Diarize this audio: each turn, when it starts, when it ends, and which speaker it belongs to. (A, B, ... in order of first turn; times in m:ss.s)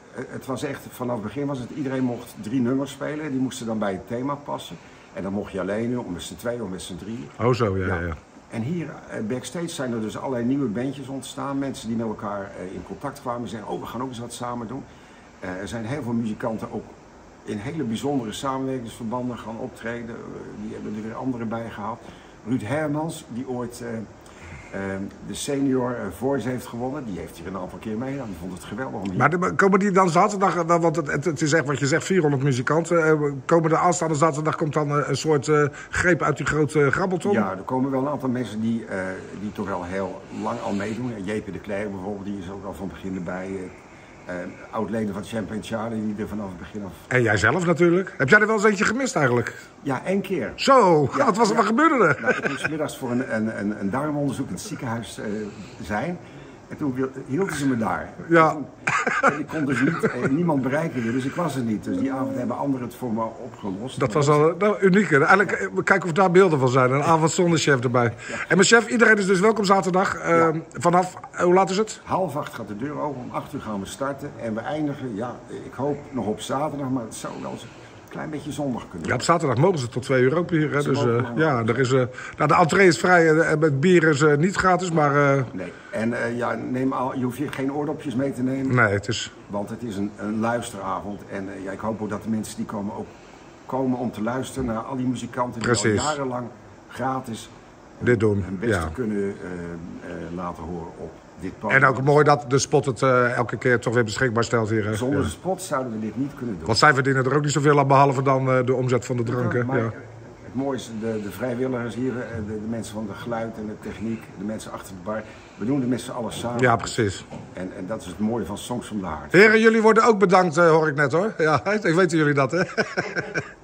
0:00.1-0:14.8 A
0:07.4-0:08.2 B
0:15.4-0:24.1 A
0:24.7-0:29.3 A
0:29.2-0:37.4 B
0:37.2-0:43.7 A
0:44.3-0:47.1 A
0:47.1-0:49.6 B
0:49.8-1:04.4 A
0:50.6-0:52.6 B
0:58.3-0:59.3 B
1:04.0-1:12.0 B
1:08.3-1:08.6 A
1:12.0-1:19.3 A
1:19.0-1:25.5 B
1:20.8-1:21.9 A
1:25.5-1:28.8 A
1:28.7-1:29.3 B
1:29.5-1:33.1 A
1:33.7-1:42.2 A
1:35.6-1:36.2 B
1:38.0-1:38.9 B
1:41.7-1:45.3 B
1:44.9-1:46.8 A
1:46.7-1:49.9 B
1:49.2-1:57.0 A
1:56.6-1:57.2 B
1:57.5-1:59.6 A
1:59.3-2:03.4 B